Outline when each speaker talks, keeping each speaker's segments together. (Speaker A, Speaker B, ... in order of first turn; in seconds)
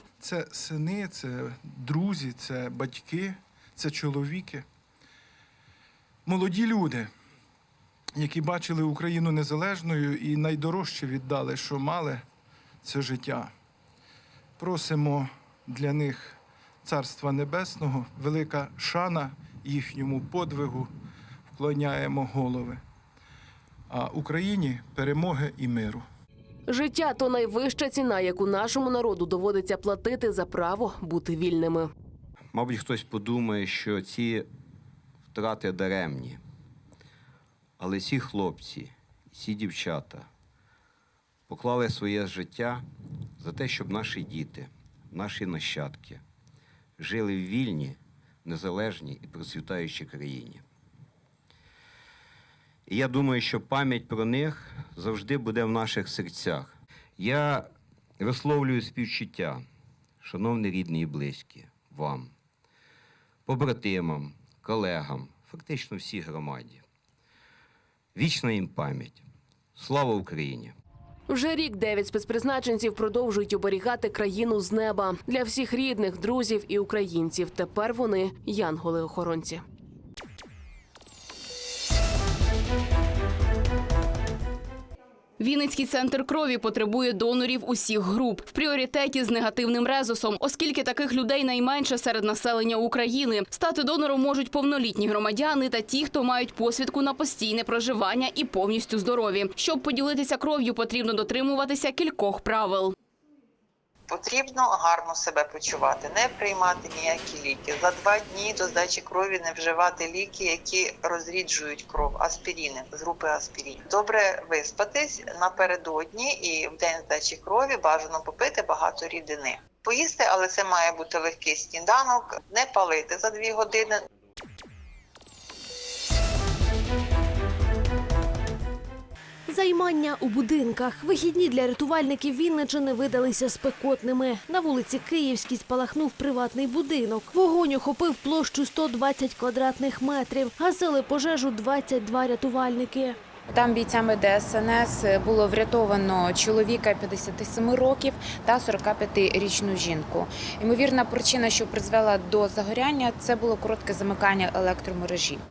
Speaker A: 0.2-4.6, 6.2-7.1, 8.2-12.2, 12.8-13.5, 14.6-20.9, 21.5-22.8, 23.9-26.0
Speaker B: 26.7-31.9, 71.3-79.6
Speaker C: 32.5-34.5, 35.3-36.4, 37.8-40.3, 41.5-42.9, 43.4-46.2, 47.0-50.6, 52.9-59.6, 60.2-62.3, 63.5-66.8, 68.1-69.2, 69.8-70.7
Speaker D: 85.4-102.9
Speaker E: 104.1-124.0
Speaker F: 129.5-143.2
Speaker G: 143.5-155.4